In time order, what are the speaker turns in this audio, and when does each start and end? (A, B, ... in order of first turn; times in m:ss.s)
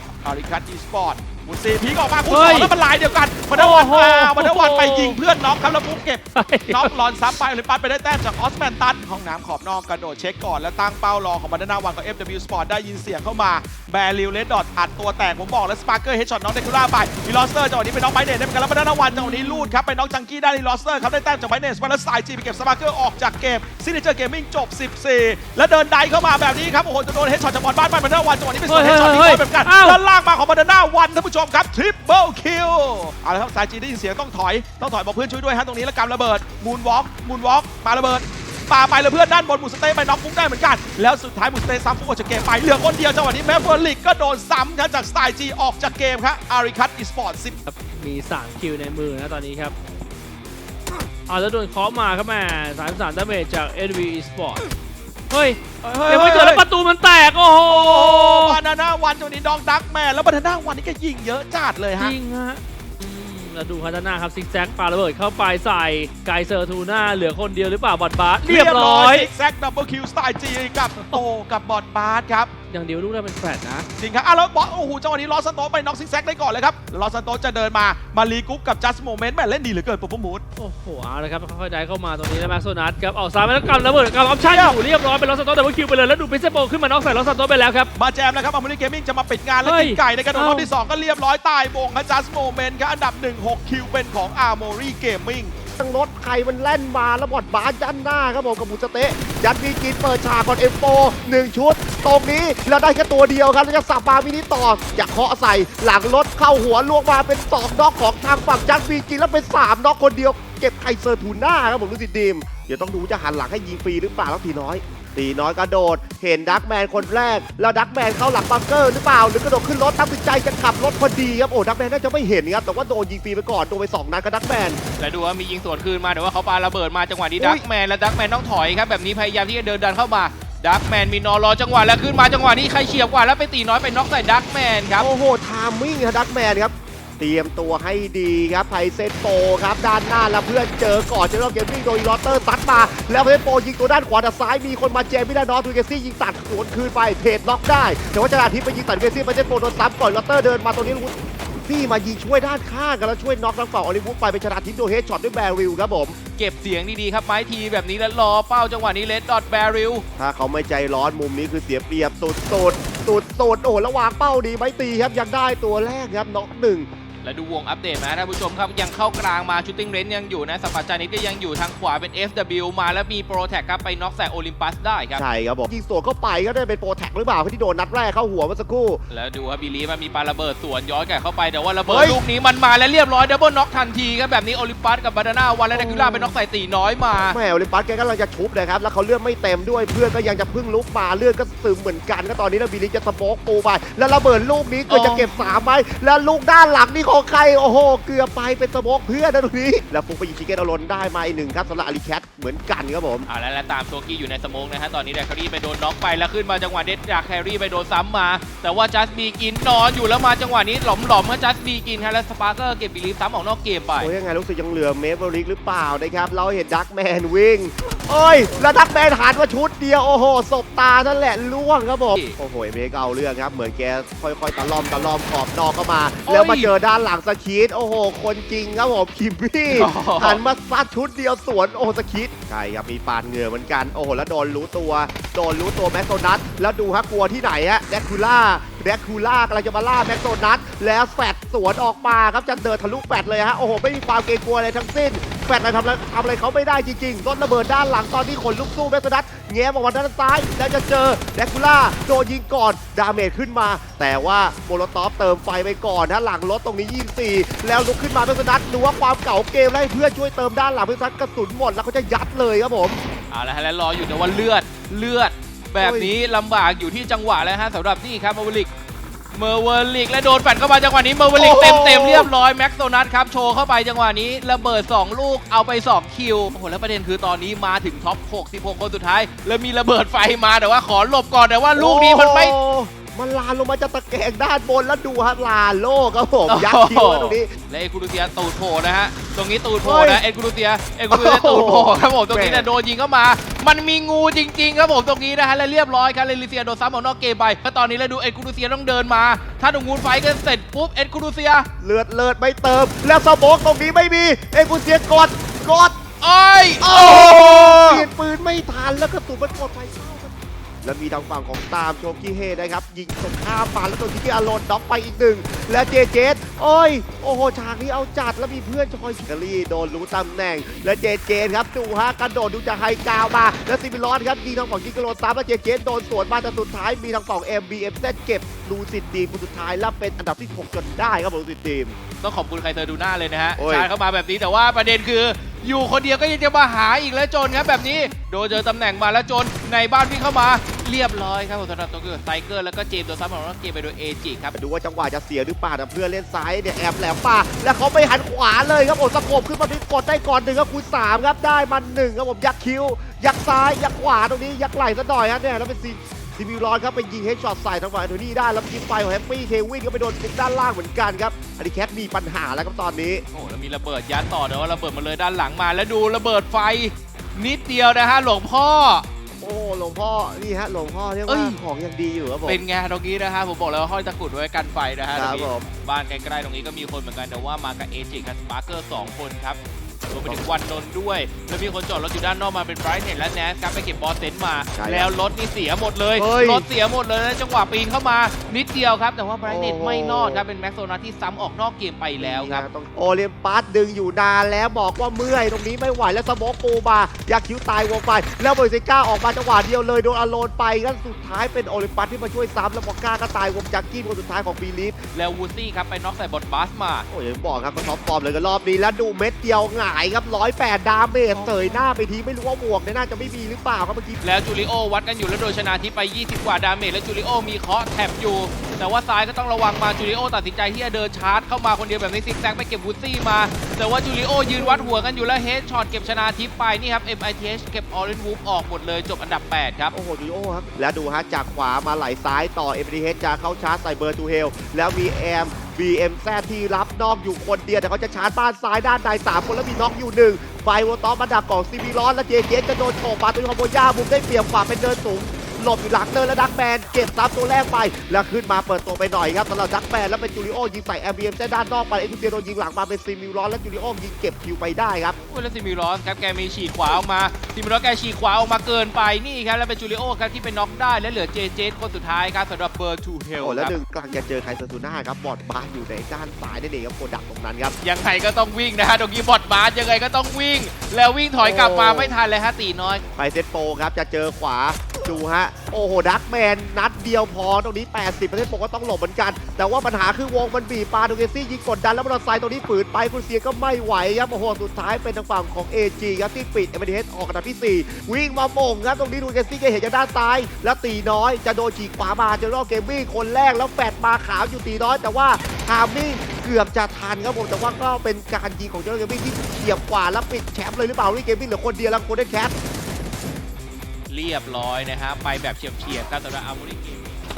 0:00.2-0:47.6 A
0:02.3-0:02.7 B
0:03.5-0:05.2 B
0:06.4-0:06.9 B
0:19.1-0:19.8 B
0:28.7-0:30.0 B
0:47.6-0:49.8 B
0:51.3-0:54.6 B
0:55.3-0:58.6 B
0:55.8-0:56.6 A
0:57.7-1:02.1 A
1:02.0-1:09.3 B
1:08.5-1:12.5 A
1:12.7-1:13.9 B
1:14.0-1:20.4 A
1:20.6-1:27.9 B
1:24.4-1:24.8 A
1:28.0-1:35.5 A
1:29.6-1:30.7 B
1:35.8-2:04.8 C
2:05.0-2:15.1 D
2:07.4-2:07.6 C
2:15.0-2:36.2 C
2:36.4-2:40.0 D
2:40.2-2:46.9 C
2:47.2-2:55.2 D
2:55.2-2:59.0 C
2:59.1-3:07.4 D
3:01.9-3:02.2 A
3:05.7-3:06.4 C
3:07.2-3:23.3 C
3:14.9-3:15.6 D
3:23.3-3:34.1 D
3:34.0-4:23.0 C
3:46.3-3:46.7 D
3:49.7-3:50.4 D
4:23.3-4:28.7 D
4:25.8-4:26.1 C
4:29.3-4:42.6 D
4:31.3-4:32.3 C
4:41.8-4:47.5 C
4:46.5-5:01.7 D
4:49.8-4:50.2 C
4:51.1-4:52.7 C
5:01.8-5:06.0 C
5:06.2-5:08.1 D
5:06.8-5:32.0 C
5:32.2-5:44.5 D
5:33.6-5:33.9 C
5:44.5-6:03.2 C
6:03.3-6:09.1 D
6:09.4-6:12.6 C
6:11.3-6:11.6 D
6:12.5-6:32.7 D
6:15.1-6:15.7 C
6:24.8-6:25.1 C
6:26.2-6:26.7 C
6:29.4-6:30.4 C
6:32.2-6:45.0 C
6:45.1-6:47.1 D
6:47.1-6:54.2 C
6:51.4-6:51.7 D
6:54.2-7:09.9 D
7:04.5-7:05.1 C
7:09.9-7:35.2 C
7:35.3-7:43.8 D
7:43.4-7:47.8 C
7:47.8-7:53.0 D
7:51.4-7:52.2 C
7:53.2-8:22.6 C
8:24.1-8:27.2 D